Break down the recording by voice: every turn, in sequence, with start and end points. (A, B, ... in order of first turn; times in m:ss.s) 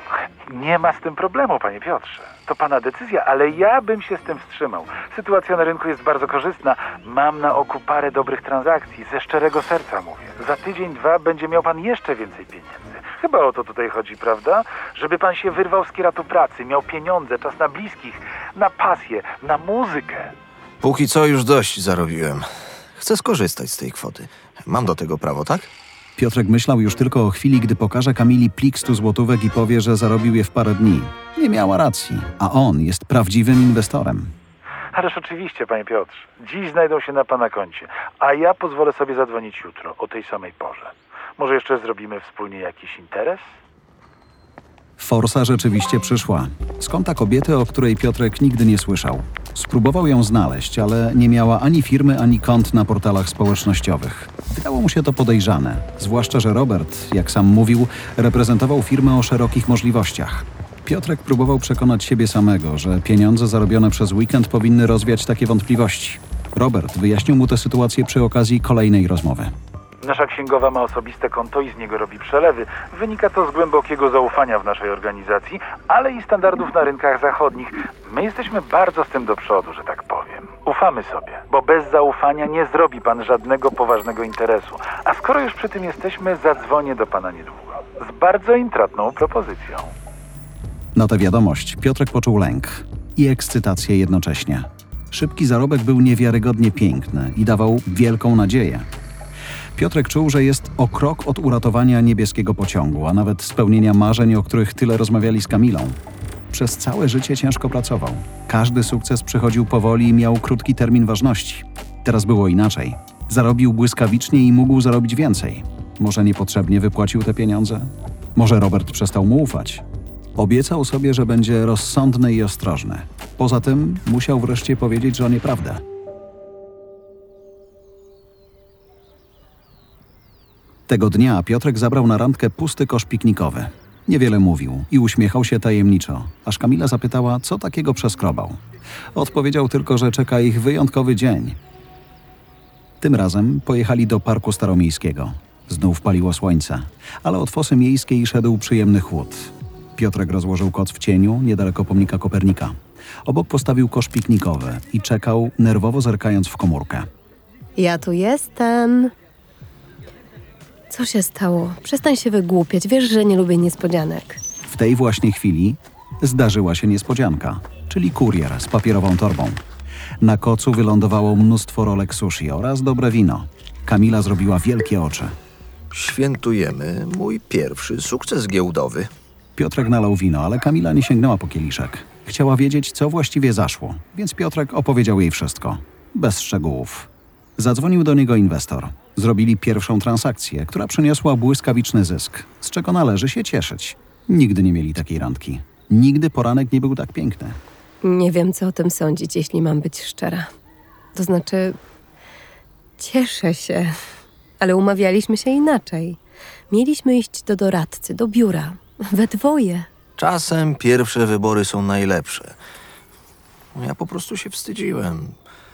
0:00.4-0:20.3 A
0:20.8-0:25.7 B
0:26.2-0:34.3 C
0:34.9-0:43.5 A
0:45.0-1:09.5 C
1:10.0-1:29.9 A
1:30.9-1:38.9 C
1:39.7-1:46.0 C
1:46.5-1:59.8 C
2:00.4-2:05.8 C
2:10.9-2:18.6 C
2:19.1-2:21.6 C
2:23.0-2:37.1 C
2:37.8-2:39.1 D
2:40.9-2:44.4 D
2:44.6-2:49.6 C
2:50.2-2:55.4 C
2:55.9-2:59.1 B
2:59.6-3:17.6 C
3:18.0-3:20.5 D
3:21.1-3:21.8 D
3:23.0-3:24.0 D
3:24.6-3:26.2 D
3:26.7-3:29.9 D
3:30.2-3:32.6 B
3:33.7-3:35.4 B